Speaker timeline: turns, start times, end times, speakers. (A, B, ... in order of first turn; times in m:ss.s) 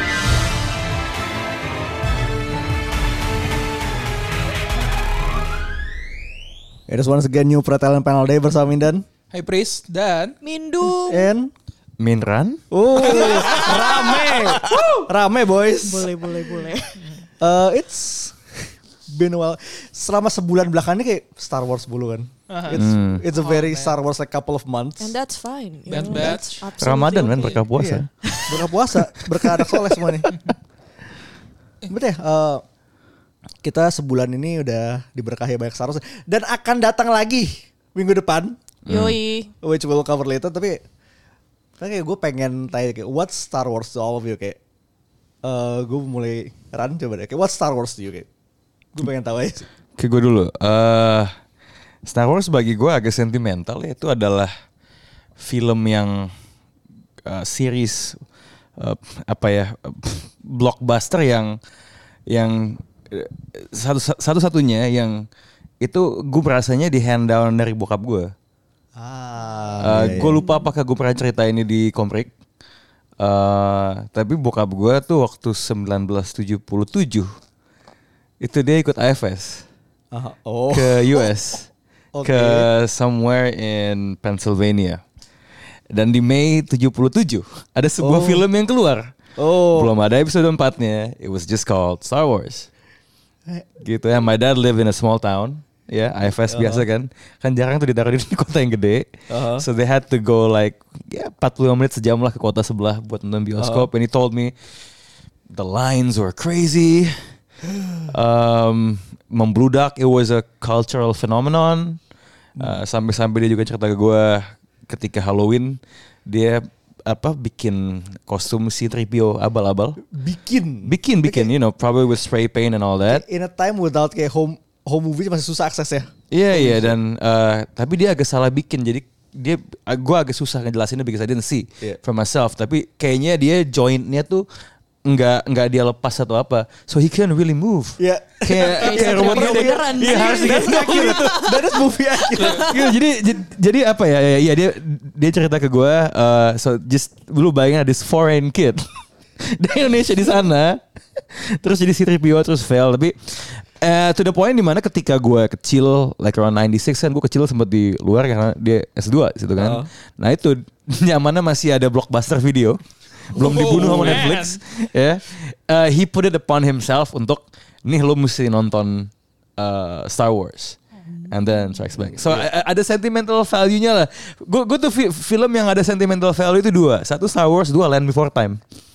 0:06.9-0:09.0 A
0:09.3-0:10.4 B
0:10.4-0:11.3 C
0:11.0-0:11.5 A
0:12.0-0:14.9 D
0:12.7-0:16.3 A
0:13.1-0:14.0 B
0:13.2-0:13.9 C
0:14.7-0:15.0 C
0:15.8-0:17.1 C
0:17.4-0:18.4 A
0:19.1-0:25.2 A
0:22.5-0:24.0 B
0:22.8-0:23.2 D
0:25.0-0:27.6 C
0:25.9-0:26.7 B
0:26.1-0:28.1 D
0:27.8-0:30.3 A
0:28.2-0:28.7 C
0:31.9-0:32.6 A
0:33.6-0:38.6 A
0:38.9-0:39.2 D
0:38.9-0:39.5 C
0:39.6-0:40.8 A
0:41.8-0:44.6 A
0:45.4-0:48.3 A
0:48.9-0:49.7 A
0:50.0-0:51.3 D
0:52.1-0:54.5 D
0:55.4-0:56.3 D
0:57.2-0:58.2 D
0:58.8-1:01.6 D
1:02.3-1:05.2 D
1:05.8-1:08.3 D
1:09.0-1:10.4 A
1:09.8-1:12.3 D
1:13.2-1:17.3 D
1:18.4-1:19.7 D
1:20.1-1:21.3 A
1:20.7-1:21.7 D
1:22.1-1:22.7 A
1:22.2-1:25.0 D
1:25.9-1:29.1 D
1:28.0-1:28.5 A
1:29.4-1:29.9 A
1:29.8-1:32.7 D
1:33.8-1:44.5 D
1:36.5-1:36.8 A
1:39.3-1:39.7 A
1:43.6-1:43.9 A
1:45.5-1:47.2 D
1:48.1-1:52.0 D
1:52.6-2:00.0 D
2:00.1-2:01.5 A
2:00.8-2:03.2 D
2:03.1-2:07.0 A
2:06.3-2:14.5 D
2:15.0-2:21.5 D
2:18.0-2:22.9 A
2:18.8-2:22.8 C
2:22.4-2:22.7 B
2:22.7-2:28.9 D
2:29.4-2:50.8 D
2:39.6-2:39.9 A
2:43.4-2:44.6 B
2:43.5-2:44.3 A
2:51.1-2:51.8 C
2:51.3-2:58.6 D
2:52.2-2:52.5 A